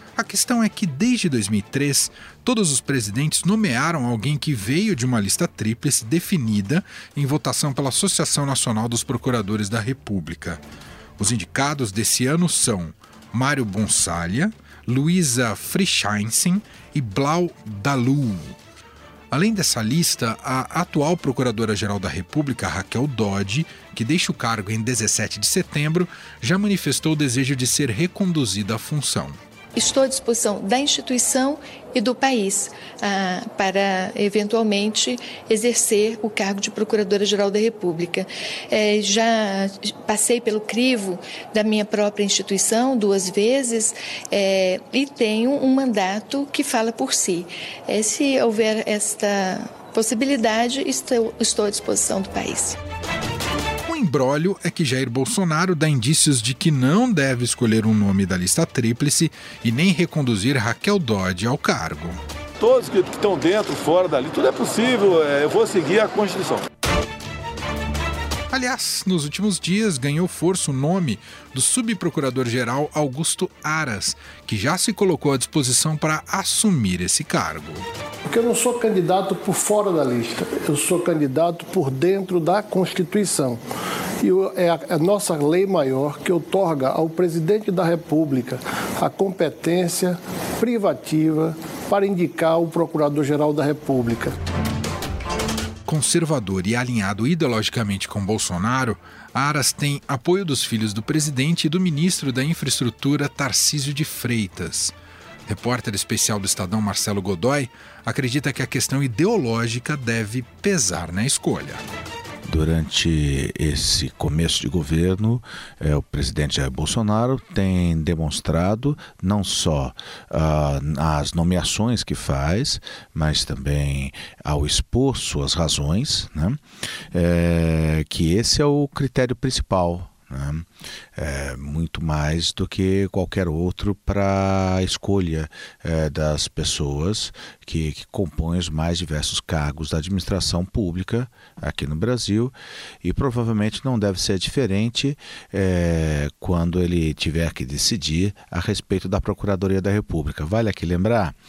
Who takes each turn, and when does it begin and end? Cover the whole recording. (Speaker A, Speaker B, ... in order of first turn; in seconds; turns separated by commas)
Speaker A: 0.1-10.6, Speaker A: 11.2-18.6, Speaker A: 19.3-29.4, Speaker B: 29.8-52.8, Speaker A: 53.8-62.2, Speaker C: 62.6-66.6, Speaker A: 68.5-77.8, Speaker D: 78.2-83.6, Speaker D: 84.2-94.3, Speaker A: 95.8-104.9, Speaker A: 105.5-111.8, Speaker E: 112.5-126.6, Speaker E: 127.1-151.3